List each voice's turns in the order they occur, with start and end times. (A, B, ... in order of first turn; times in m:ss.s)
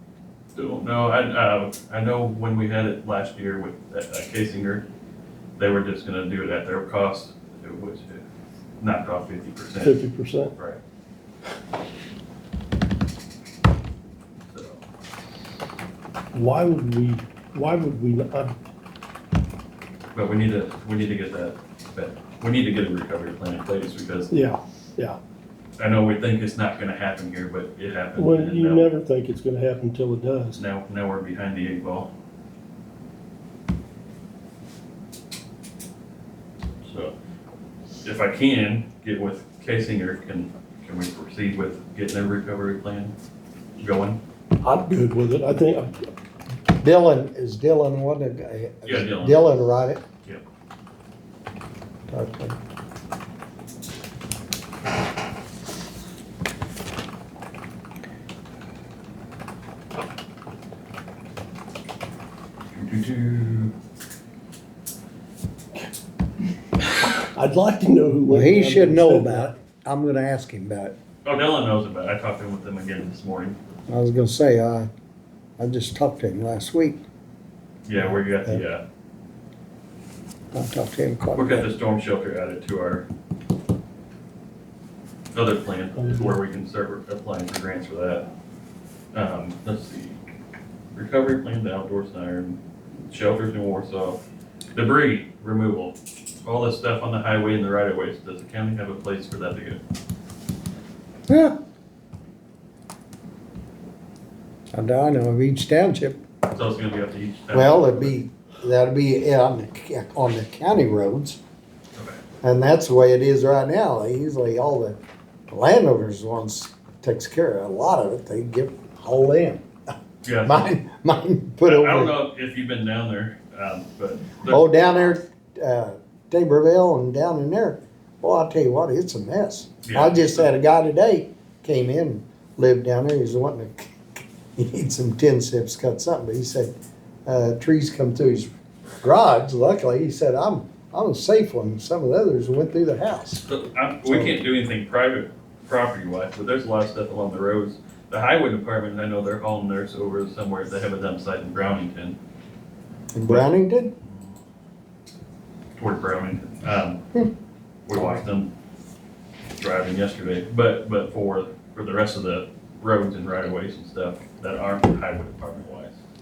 0:00.6-0:04.8 A
0:05.6-0:08.2 A
0:08.8-0:10.0 A
0:09.8-0:10.5 B
0:10.6-0:10.8 A
0:14.5-0:14.8 A
0:16.3-0:18.6 B
0:20.1-0:24.3 A
0:24.3-0:25.2 B
0:25.8-0:28.9 A
0:28.2-0:30.6 B
0:30.6-0:32.1 A
0:36.8-0:37.2 A
0:38.0-0:43.1 A
0:43.8-0:44.2 A
0:44.6-0:45.9 B
0:46.8-0:50.0 C
0:48.8-0:49.5 A
0:52.1-0:52.6 C
1:02.7-1:03.7 A
1:07.3-1:09.5 B
1:08.3-1:11.0 C
1:11.2-1:13.6 A
1:13.9-1:14.9 C
1:15.6-1:17.0 C
1:17.8-1:18.8 A
1:18.0-1:18.6 C
1:20.5-1:21.7 C
1:21.4-1:23.1 A
1:25.3-1:28.3 A
1:26.0-1:26.4 B
1:29.1-1:30.2 A
1:30.9-1:34.2 A
1:34.8-1:39.8 A
1:41.3-1:41.6 C
1:44.7-1:46.2 C
1:46.5-1:48.2 A
1:47.5-1:51.4 C
1:52.4-1:59.6 C
2:00.2-2:00.7 A
2:00.4-2:02.2 C
2:01.6-2:05.2 A
2:04.5-2:14.0 C
2:09.8-2:10.5 A
2:14.6-2:16.7 C
2:17.3-2:18.5 C
2:19.0-2:23.4 C
2:23.5-2:32.2 A
2:33.1-2:33.9 C
2:35.8-2:37.0 A
2:37.9-2:38.5 A
2:39.6-2:46.0 A